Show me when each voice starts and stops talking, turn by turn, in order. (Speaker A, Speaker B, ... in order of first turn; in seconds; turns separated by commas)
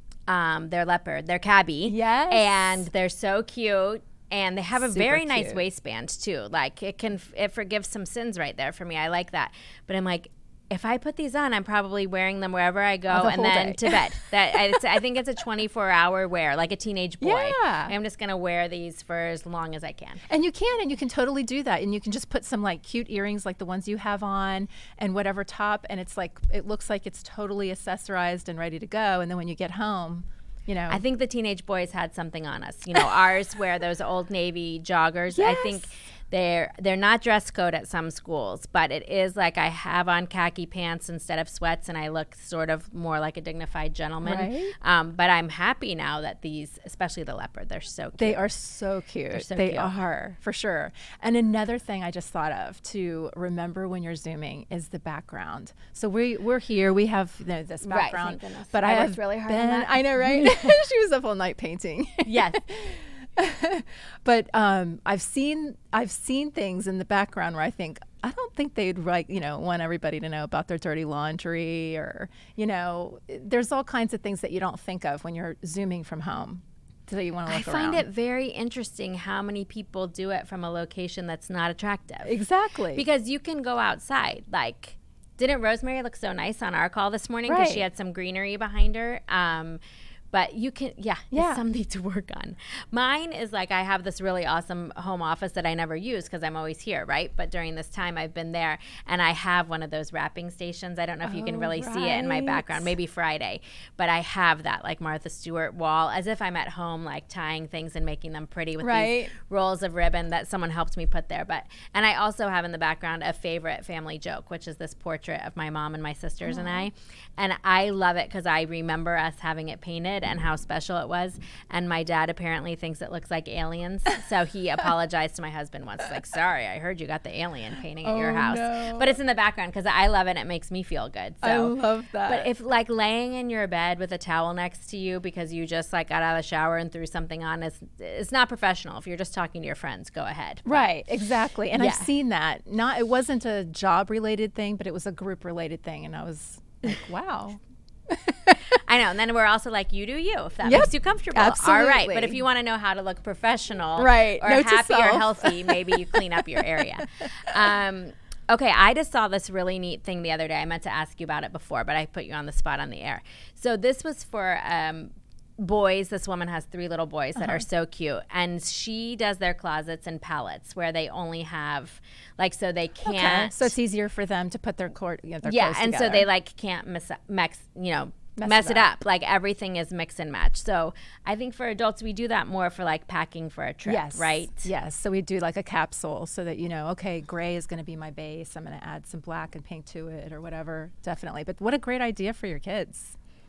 Speaker A: 0.3-20.2, Speaker B: 1.9-2.9, Speaker B: 4.8-5.6, Speaker B: 13.1-14.1, Speaker B: 17.2-17.9, Speaker B: 20.3-31.0, Speaker A: 30.9-48.4, Speaker B: 35.3-35.9, Speaker B: 44.2-44.7, Speaker B: 48.2-78.1, Speaker A: 49.3-50.0, Speaker A: 57.8-60.8, Speaker A: 62.3-62.6, Speaker A: 77.5-82.4, Speaker B: 82.2-83.0, Speaker A: 83.0-89.8, Speaker B: 87.5-87.9, Speaker A: 90.3-140.9, Speaker B: 91.3-91.6, Speaker B: 101.2-102.9, Speaker B: 108.8-109.3, Speaker B: 116.4-116.9, Speaker B: 128.0-129.1, Speaker B: 131.4-132.5, Speaker B: 140.7-147.6, Speaker A: 141.7-142.1, Speaker B: 148.1-148.6, Speaker A: 148.7-173.7, Speaker B: 150.6-152.4, Speaker B: 154.0-157.1, Speaker B: 167.4-167.7, Speaker B: 173.0-176.3, Speaker A: 175.4-184.7, Speaker B: 178.4-178.9, Speaker B: 183.8-193.2